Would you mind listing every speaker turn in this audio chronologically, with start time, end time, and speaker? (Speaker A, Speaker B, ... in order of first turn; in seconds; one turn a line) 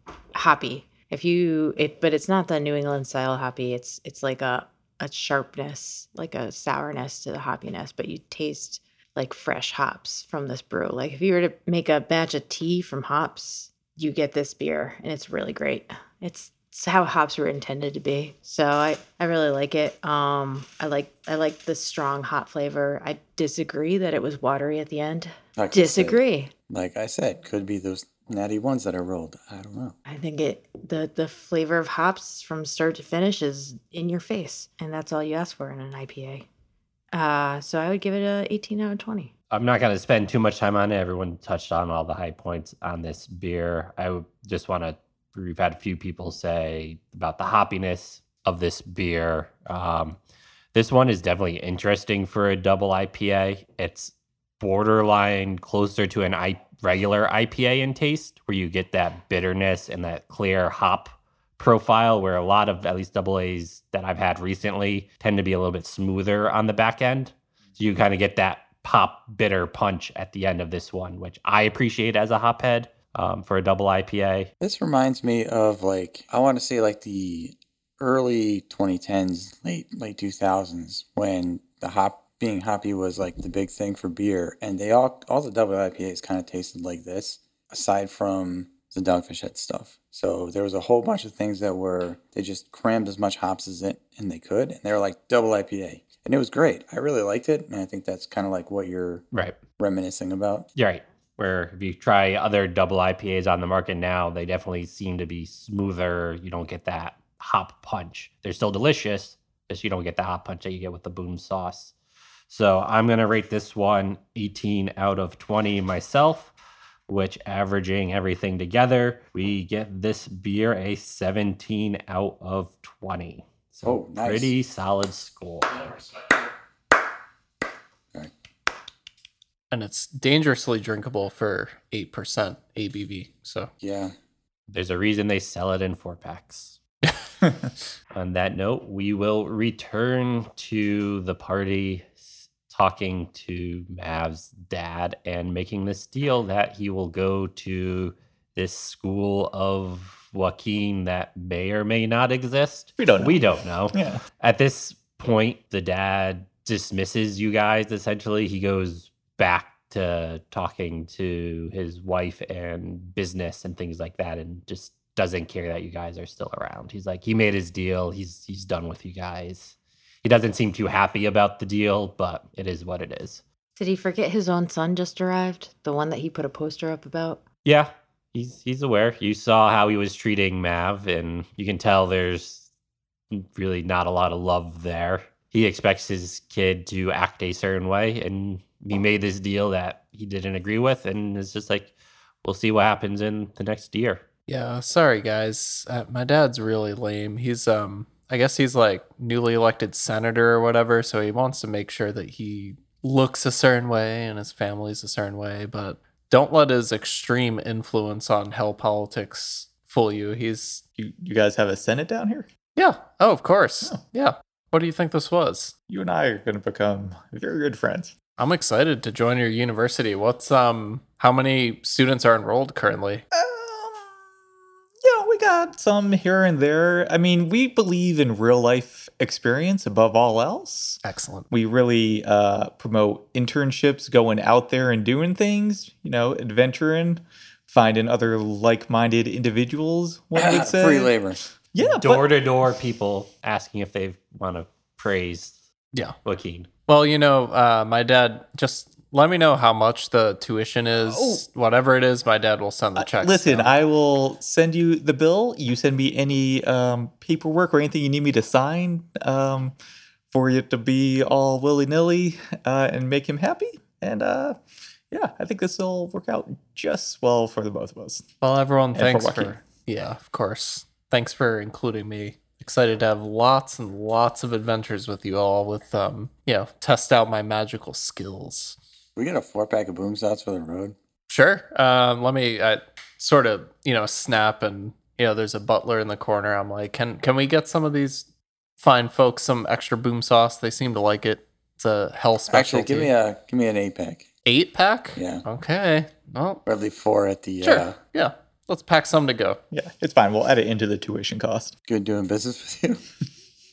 Speaker A: 0.3-26.5
Speaker B: 25.6-30.0
Speaker A: 30.1-36.5
Speaker A: 37.1-39.3
Speaker C: 39.5-50.2
Speaker C: 50.7-74.5
Speaker B: 74.6-99.3
Speaker C: 99.3-99.6
Speaker B: 99.8-100.7
Speaker C: 100.8-111.9
Speaker C: 112.5-116.5
Speaker C: 117.1-126.0
Speaker B: 123.8-124.5
Speaker D: 129.7-133.7
Speaker B: 133.8-134.1
Speaker C: 134.7-136.8
Speaker C: 138.1-173.4
Speaker E: 153.0-154.2
Speaker A: 173.8-177.4
Speaker C: 177.7-182.7
Speaker C: 183.3-191.9
Speaker C: 192.4-194.2
Speaker D: 194.5-210.8
Speaker E: 211.0-212.5
Speaker D: 212.8-215.7
Speaker E: 215.9-218.1
Speaker D: 218.4-223.2
Speaker E: 223.3-224.2
Speaker E: 225.0-241.2
Speaker D: 231.0-231.5
Speaker B: 240.4-241.4
Speaker E: 241.7-242.3
Speaker C: 242.0-245.6
Speaker C: 246.2-246.7
Speaker D: 246.9-253.7
Speaker E: 251.1-251.4
Speaker E: 253.0-259.8
Speaker E: 260.3-264.6
Speaker E: 265.1-268.3
Speaker D: 268.4-278.8
Speaker E: 268.9-269.6
Speaker B: 279.2-280.9
Speaker D: 281.3-288.3
Speaker D: 288.8-293.1
Speaker B: 292.5-294.3
Speaker D: 294.4-296.6
Speaker B: 295.2-295.4
Speaker B: 296.7-297.9
Speaker D: 297.6-299.6
Speaker E: 299.7-301.7
Speaker B: 301.9-303.0